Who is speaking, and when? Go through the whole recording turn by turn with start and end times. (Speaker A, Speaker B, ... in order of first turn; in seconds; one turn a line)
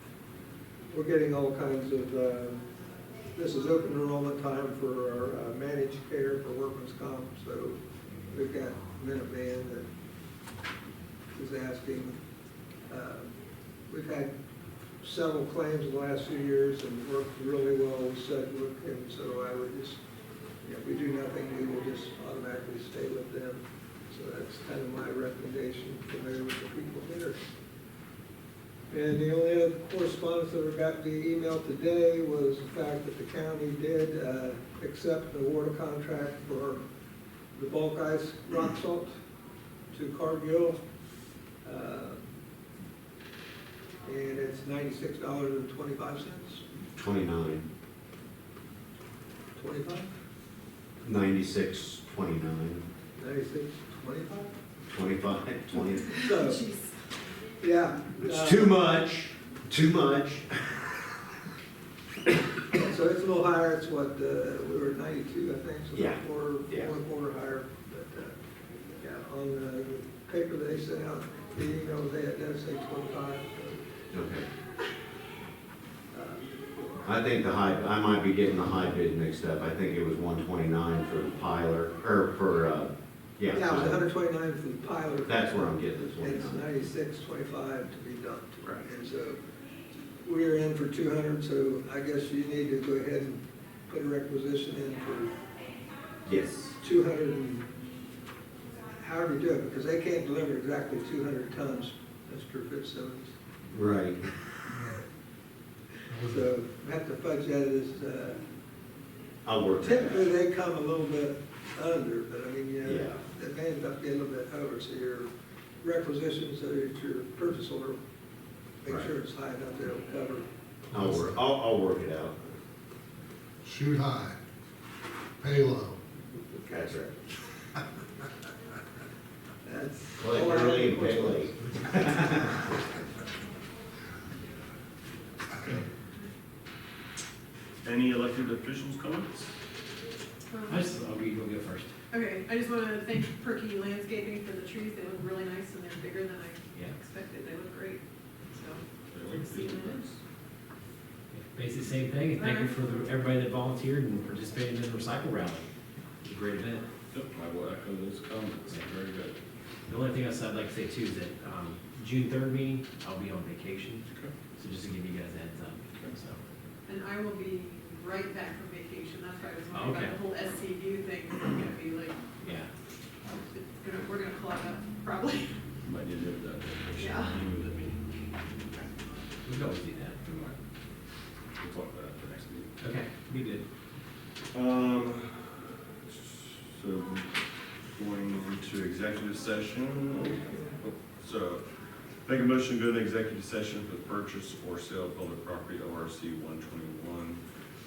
Speaker A: 0.9-2.6
Speaker A: 3.3-7.8
Speaker A: 8.3-9.8
Speaker A: 11.3-12.2
Speaker A: 12.9-13.3
Speaker A: 13.9-14.3
Speaker A: 15.0-20.0
Speaker A: 20.6-27.4
Speaker A: 28.9-36.8
Speaker A: 37.5-39.1
Speaker A: 39.9-40.8
Speaker A: 41.6-42.2
Speaker A: 44.0-46.6
Speaker B: 47.0-47.6
Speaker A: 49.5-50.1
Speaker B: 51.0-52.8
Speaker A: 53.2-54.5
Speaker B: 54.9-56.1
Speaker C: 55.7-57.0
Speaker A: 56.1-56.6
Speaker A: 57.6-58.8
Speaker B: 58.2-61.0
Speaker A: 62.8-68.4
Speaker B: 65.9-66.9
Speaker A: 68.9-73.8
Speaker B: 74.1-74.5
Speaker A: 76.1-76.5
Speaker B: 77.0-84.0
Speaker A: 83.5-89.4
Speaker B: 85.2-86.6
Speaker A: 90.2-95.3
Speaker B: 96.2-96.8
Speaker A: 96.8-97.7
Speaker A: 98.9-103.3
Speaker B: 103.7-104.3
Speaker D: 106.1-106.4
Speaker A: 106.2-108.4
Speaker B: 109.4-110.3
Speaker A: 109.8-115.3
Speaker B: 112.8-113.2
Speaker A: 115.8-118.0
Speaker A: 118.8-120.5
Speaker D: 120.9-121.3
Speaker B: 120.9-122.4
Speaker D: 123.6-124.4
Speaker D: 125.4-126.0
Speaker A: 126.5-127.1
Speaker A: 129.6-131.5
Speaker B: 130.2-132.6
Speaker E: 137.8-139.5
Speaker C: 140.5-140.8
Speaker F: 140.7-141.9
Speaker C: 142.1-150.1
Speaker E: 149.1-150.2
Speaker F: 151.3-155.7
Speaker C: 152.3-152.7
Speaker F: 156.2-156.8
Speaker E: 157.1-159.3
Speaker F: 159.9-164.0
Speaker E: 164.1-164.3
Speaker F: 164.6-166.4
Speaker C: 166.9-172.4
Speaker F: 169.7-170.2
Speaker F: 172.4-172.7
Speaker C: 173.3-175.6
Speaker E: 175.8-178.0
Speaker C: 177.0-177.4
Speaker F: 179.4-180.5
Speaker E: 181.6-182.7
Speaker F: 182.8-183.6
Speaker E: 184.5-187.3
Speaker E: 187.9-191.6
Speaker E: 192.2-197.4